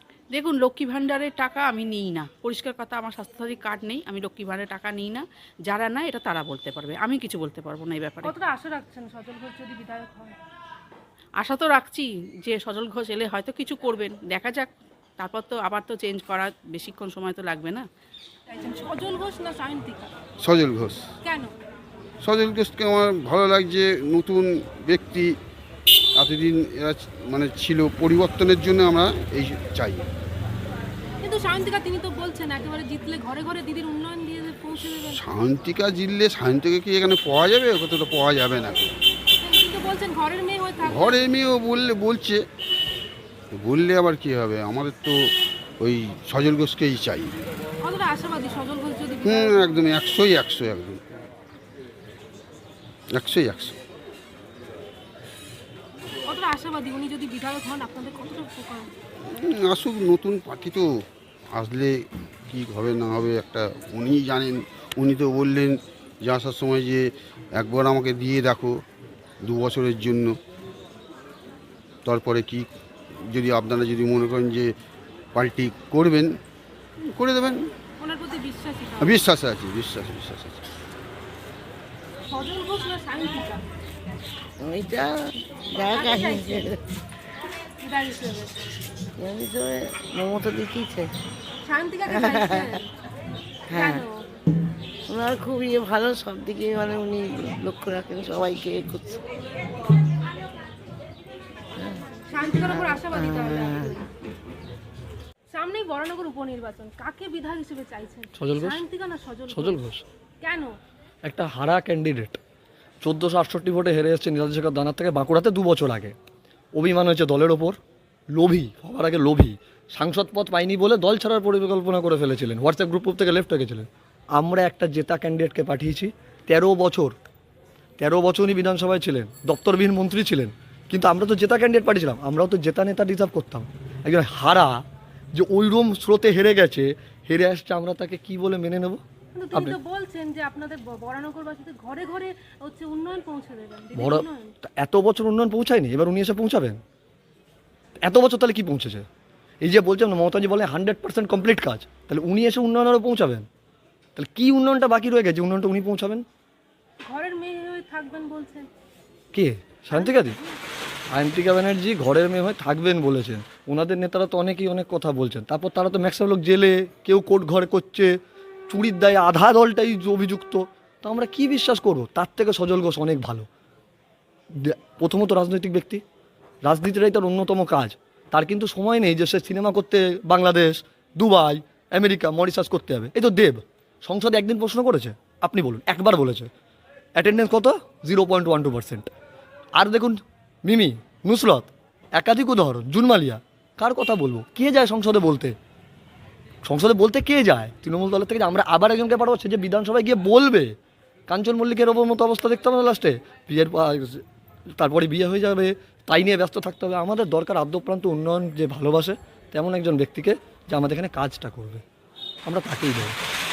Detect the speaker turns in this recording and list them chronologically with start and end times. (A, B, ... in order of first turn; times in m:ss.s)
0:00.3-0:08.3 A
0:08.2-0:10.4 B
0:11.4-0:17.8 A
0:18.5-0:20.1 B
0:20.4-0:21.0 C
0:21.2-0:21.5 B
0:22.2-0:25.4 C
0:26.2-0:30.1 C
0:31.2-0:35.2 B
0:35.1-0:38.9 C
0:39.4-0:41.2 B
0:40.8-0:42.4 C
0:43.5-0:45.2 C
0:45.8-0:47.3 C
0:47.8-0:49.9 B
0:49.2-0:51.0 C
0:53.1-0:53.8 C
0:56.3-0:58.9 B
0:59.3-1:00.9 C
1:01.5-1:08.8 C
1:09.4-1:10.4 C
1:12.1-1:12.7 C
1:13.3-1:14.7 C
1:15.4-1:16.4 C
1:17.1-1:17.7 C
1:18.0-1:19.2 B
1:19.0-1:20.6 C
1:22.3-1:23.6 B
1:24.6-1:26.8 D
1:25.8-1:26.7 B
1:27.8-1:28.5 B
1:29.2-1:31.1 D
1:31.7-1:32.9 B
1:32.1-1:32.7 D
1:33.7-1:34.0 D
1:33.7-1:34.2 B
1:35.1-1:39.2 D
1:42.3-1:44.1 B
1:42.7-1:43.9 D
1:45.5-1:49.8 B
1:48.4-1:48.8 E
1:49.5-1:50.0 E
1:50.4-1:50.7 B
1:51.2-1:52.4 E
1:53.0-1:56.2 E
1:56.8-1:57.8 E
1:58.4-2:07.2 E
2:08.0-2:14.8 E
2:15.3-2:19.0 E
2:19.4-2:24.5 B
2:24.0-2:26.8 E
2:28.0-2:29.1 E
2:29.6-2:33.5 E
2:34.2-2:36.2 E
2:37.0-2:38.7 B
2:39.3-2:40.4 E
2:39.9-2:40.6 B
2:41.1-2:48.2 E
2:48.7-2:53.5 E
2:54.5-2:56.0 E
2:56.6-3:06.5 E
3:07.2-3:09.1 E
3:09.8-3:15.6 E
3:16.6-3:20.7 E
3:21.3-3:24.2 E
3:24.8-3:31.8 E
3:32.5-3:33.2 E